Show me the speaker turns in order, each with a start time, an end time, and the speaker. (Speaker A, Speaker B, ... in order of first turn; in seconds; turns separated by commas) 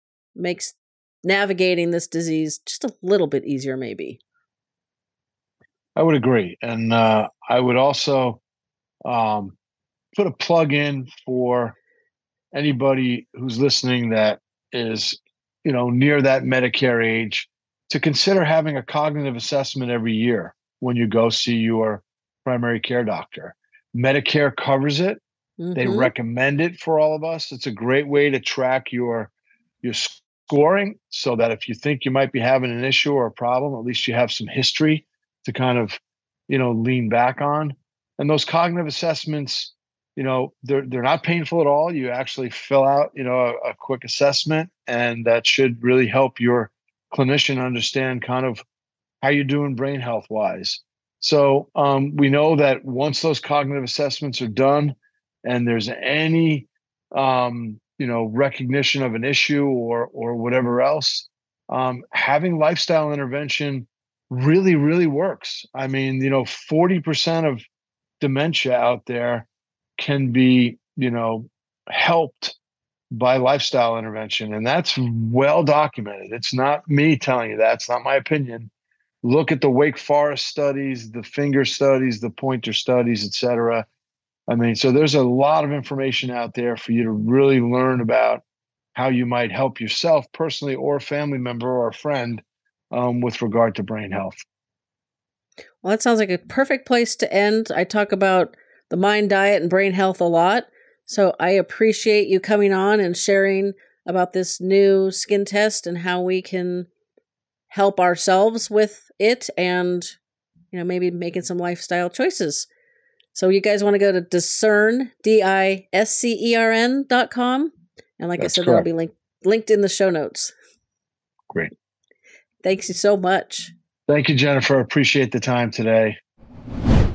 Speaker A: 0.4-4.2, Speaker B: 6.0-8.4, Speaker B: 9.0-9.6, Speaker B: 10.1-11.8, Speaker B: 12.5-25.2, Speaker A: 25.6-26.1, Speaker B: 25.7-29.3, Speaker B: 29.8-48.6, Speaker B: 49.2-67.6, Speaker B: 68.2-69.5, Speaker B: 70.0-72.6, Speaker B: 73.1-78.7, Speaker B: 79.2-83.9, Speaker B: 84.5-88.4, Speaker B: 88.9-94.4, Speaker A: 95.8-106.9, Speaker A: 107.7-110.2, Speaker A: 110.7-112.7, Speaker A: 113.3-120.5, Speaker B: 118.4-118.9, Speaker A: 122.6-123.7, Speaker B: 124.1-126.2